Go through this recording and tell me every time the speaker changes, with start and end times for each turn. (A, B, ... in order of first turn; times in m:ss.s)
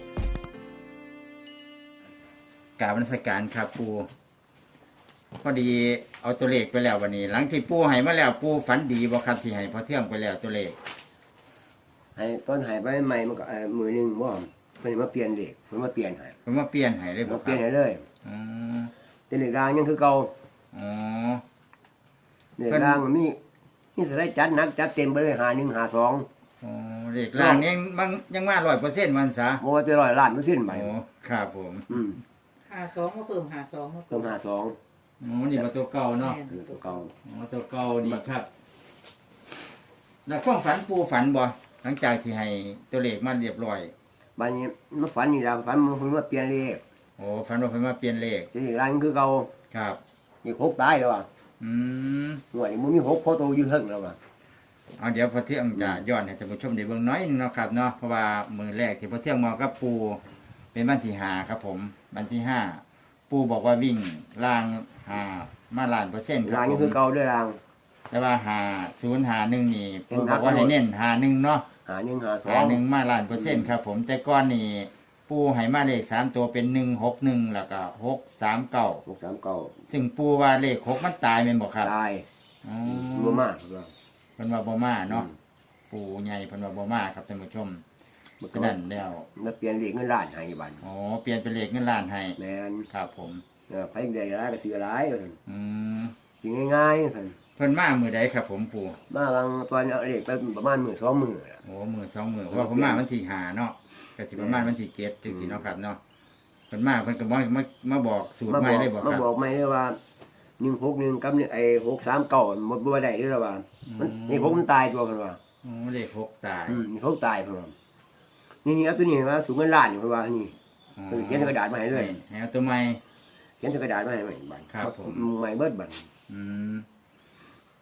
0:02.8-0:04.1 A
0:05.4-0:10.8 A
0:12.2-0:16.4 B
0:16.5-0:17.6 A
0:17.3-0:18.0 B
0:18.2-0:18.9 A
0:19.3-0:20.3 B
0:20.7-0:21.4 A
0:22.6-0:23.4 B
0:22.7-0:23.0 A
0:24.0-0:26.3 B
0:26.6-0:29.6 A
0:27.4-0:27.7 B
0:29.6-0:30.9 B
0:30.7-0:32.0 A
0:31.9-0:32.2 B
0:32.7-0:34.3 C
0:34.1-0:34.8 B
0:35.2-0:36.4 A
0:36.1-0:37.1 C
0:36.5-0:37.1 B
0:37.2-0:38.5 A
0:40.3-0:43.9 A
0:44.4-0:46.8 B
0:47.2-0:48.5 A
0:48.5-0:49.5 B
0:49.7-0:50.0 A
0:50.4-0:51.3 B
0:51.6-0:52.4 A
0:52.5-0:54.2 B
0:55.0-1:00.2 A
0:55.8-0:56.0 B
1:00.7-1:07.0 A
1:06.4-1:07.6 B
1:08.1-1:11.7 A
1:10.1-1:10.8 B
1:11.8-1:13.7 B
1:12.4-1:19.0 A
1:19.1-1:19.8 B
1:19.9-1:21.9 A
1:21.8-1:22.3 B
1:22.6-1:23.5 A
1:22.9-1:23.9 B
1:24.4-1:25.3 A
1:25.9-1:27.8 A
1:28.4-1:28.8 B
1:28.5-1:29.3 A
1:29.4-1:30.8 B
1:30.8-1:32.4 A
1:32.4-1:32.9 B
1:32.9-1:33.4 A
1:33.7-1:35.4 B
1:35.5-1:36.1 A
1:36.4-1:37.4 B
1:37.6-1:39.0 A
1:39.1-1:41.6 B
1:41.6-1:46.0 A
1:42.5-1:43.0 B
1:44.4-1:44.8 B
1:45.3-1:45.7 B
1:46.7-1:49.3 A
1:48.5-1:50.0 B
1:50.6-1:55.4 B
1:53.9-1:54.6 A
1:55.6-1:56.8 A
1:56.7-1:57.7 B
1:58.6-2:00.6 B
2:01.0-2:03.0 A
2:01.1-2:02.2 B
2:03.6-2:06.1 B
2:04.7-2:05.3 A
2:06.3-2:06.9 A